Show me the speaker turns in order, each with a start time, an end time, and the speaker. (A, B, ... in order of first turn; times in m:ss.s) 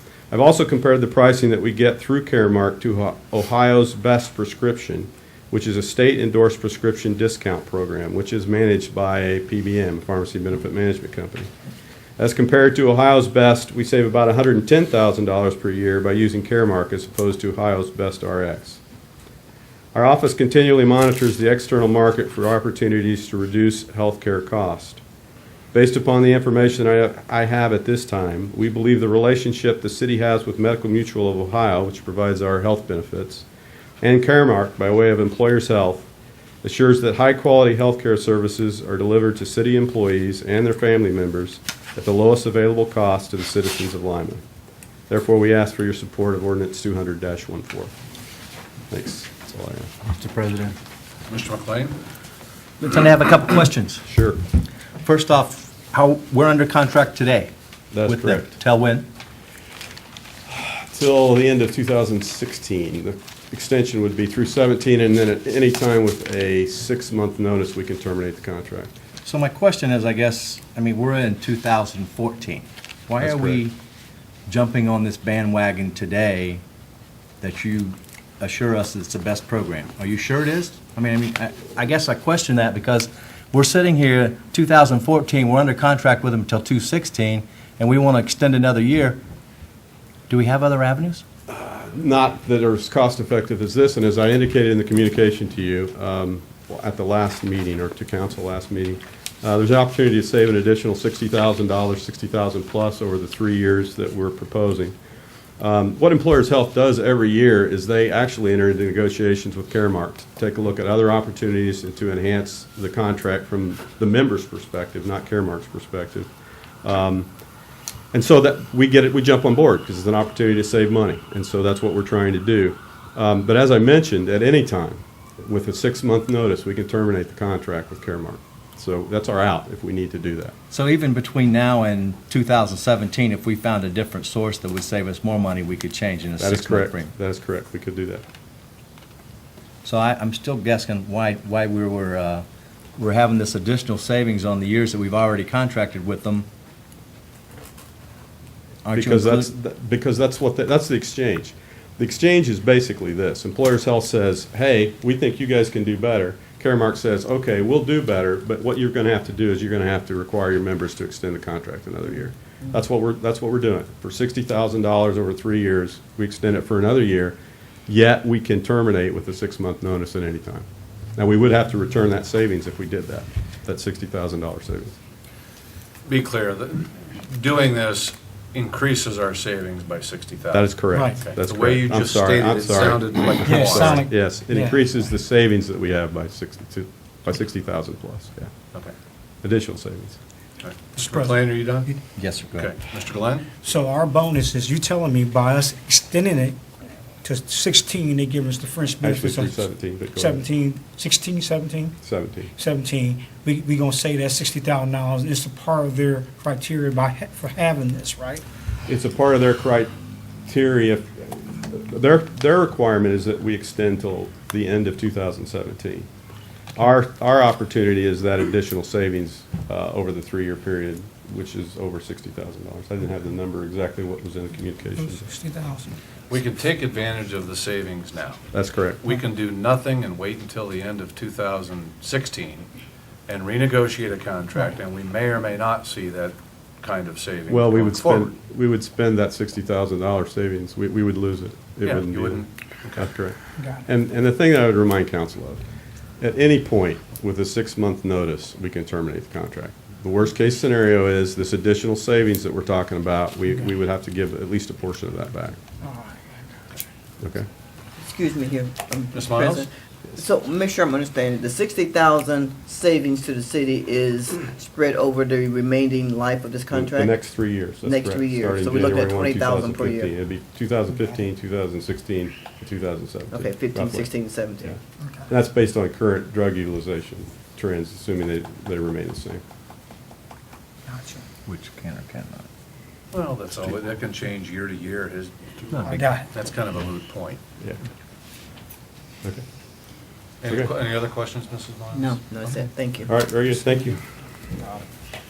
0:00.3-0:11.5 A
0:12.2-0:18.8 A
0:19.9-0:25.0 A
0:25.7-0:33.4 A
0:34.0-0:36.1 A
0:36.6-0:44.4 A
0:45.1-0:47.9 A
0:48.9-0:49.9 A
0:50.0-0:50.8 B
0:51.3-0:52.0 C
0:52.8-0:54.0 B
0:54.0-0:54.4 A
0:55.0-0:57.5 B
0:57.9-0:58.5 A
0:58.0-0:59.0 B
1:00.5-1:08.9 A
1:09.2-1:13.8 B
1:13.2-1:13.6 A
1:14.5-1:16.6 B
1:17.4-1:29.2 B
1:30.3-1:31.2 B
1:31.5-1:44.9 A
1:45.6-1:56.3 A
1:56.8-1:57.3 A
1:58.1-2:10.5 A
2:10.7-2:17.1 B
2:16.4-2:18.2 A
2:19.8-2:22.4 B
2:23.0-2:26.5 B
2:28.8-2:29.5 B
2:28.9-2:55.0 A
2:56.1-3:04.1 C
3:00.5-3:08.5 A
3:00.9-3:01.2 D
3:03.4-3:04.9 D
3:09.4-3:10.2 A
3:10.6-3:11.9 C
3:11.0-3:11.4 D
3:12.1-3:12.7 B
3:12.6-3:13.5 C
3:13.6-3:16.6 D
3:17.2-3:22.0 D
3:19.0-3:20.4 A
3:22.0-3:22.5 A
3:22.6-3:28.4 D
3:28.9-3:29.9 A
3:30.5-3:36.1 A
3:36.8-3:45.3 A
3:45.0-3:46.0 D
3:46.3-3:48.4 C
3:48.5-3:49.0 A
3:49.0-3:52.7 C
3:53.3-3:58.3 C
3:57.5-4:02.4 A
4:01.8-4:03.1 C
4:03.0-4:05.6 A
4:06.2-4:15.6 A
4:15.8-4:16.2 D
4:17.2-4:17.5 A
4:18.0-4:27.2 E
4:19.1-4:19.6 C
4:26.7-4:34.1 A
4:27.8-4:30.1 E
4:33.3-4:34.7 E
4:34.6-4:39.4 A
4:40.9-4:41.2 D
4:41.4-4:42.5 B
4:43.1-4:47.4 C
4:45.9-4:46.3 D
4:50.4-4:52.6 C
4:51.9-4:53.1 E
4:53.1-4:54.0 A